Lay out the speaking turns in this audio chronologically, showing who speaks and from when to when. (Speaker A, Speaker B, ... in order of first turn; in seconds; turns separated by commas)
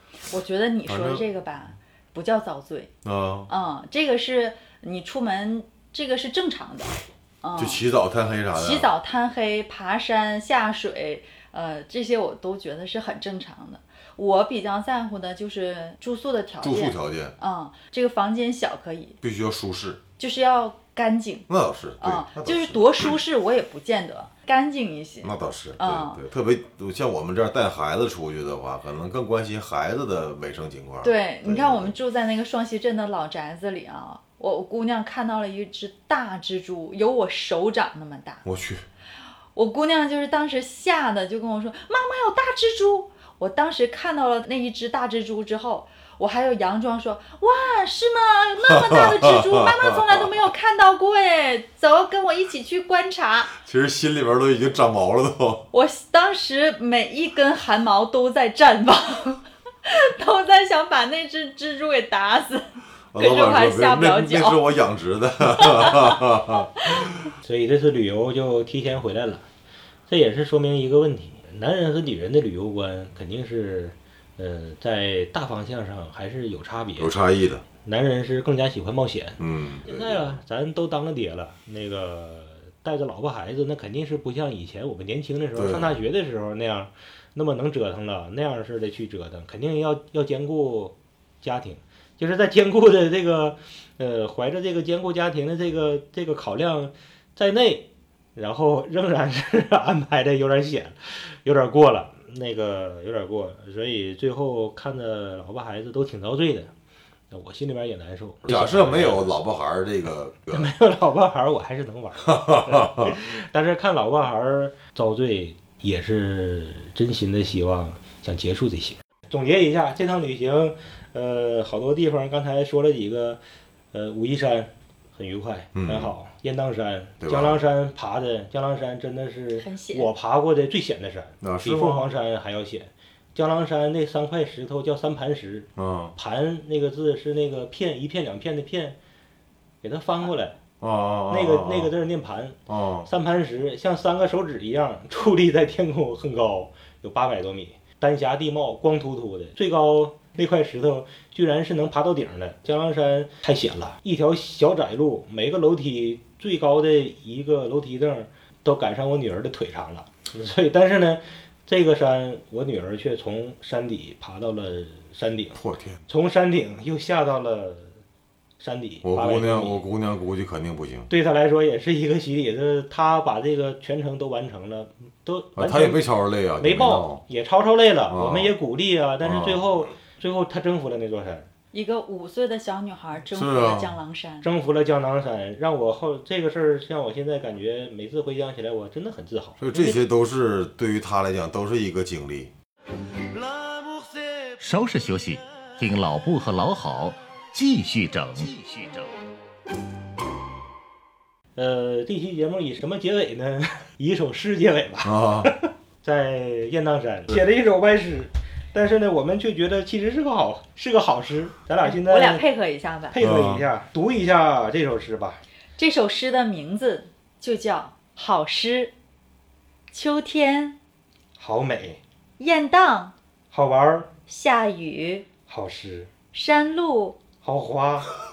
Speaker A: 0.3-2.9, Speaker B: 0.9-1.2, Speaker B: 3.0-3.5, Speaker A: 3.5-7.8, Speaker B: 7.6-8.9, Speaker A: 8.5-19.2, Speaker B: 16.6-17.4, Speaker B: 19.2-20.0, Speaker A: 20.2-21.5, Speaker B: 21.5-23.2, Speaker A: 22.0-26.2, Speaker B: 25.2-31.9, Speaker A: 31.0-38.5, Speaker B: 38.5-38.8, Speaker A: 39.5-53.5, Speaker B: 48.7-50.2, Speaker B: 53.6-55.7, Speaker A: 55.7-64.6, Speaker B: 63.1-67.1, Speaker A: 65.6-66.0, Speaker C: 67.4-69.5, Speaker C: 70.1-77.1, Speaker B: 77.0-77.6, Speaker C: 77.8-106.7, Speaker B: 79.4-80.1, Speaker B: 85.5-85.9, Speaker C: 107.3-109.4, Speaker B: 108.5-110.7, Speaker C: 110.5-123.4, Speaker B: 112.2-113.2, Speaker C: 123.9-139.0, Speaker B: 125.8-126.1, Speaker B: 127.2-127.6, Speaker A: 129.6-130.1, Speaker B: 131.4-132.1, Speaker B: 135.8-136.2, Speaker C: 139.8-140.6, Speaker B: 140.8-141.9, Speaker C: 141.3-168.0, Speaker B: 142.7-143.1, Speaker B: 165.6-166.0, Speaker C: 168.6-169.8, Speaker B: 169.0-171.1, Speaker C: 171.1-176.0, Speaker B: 175.6-177.2, Speaker C: 176.6-181.5, Speaker B: 178.1-178.5, Speaker B: 179.2-179.6, Speaker A: 181.7-184.5, Speaker B: 183.3-183.9, Speaker C: 184.4-189.6, Speaker B: 189.6-192.5, Speaker A: 189.7-190.0, Speaker D: 194.6-199.1, Speaker C: 201.6-212.4, Speaker B: 205.0-205.5, Speaker A: 211.8-213.2, Speaker C: 213.1-215.4, Speaker B: 213.2-213.7, Speaker A: 215.8-218.9, Speaker A: 219.9-220.8, Speaker C: 221.4-222.0, Speaker A: 222.4-223.1, Speaker C: 223.5-224.1, Speaker A: 224.3-225.3, Speaker C: 225.5-226.1, Speaker A: 226.3-227.2, Speaker C: 227.4-228.1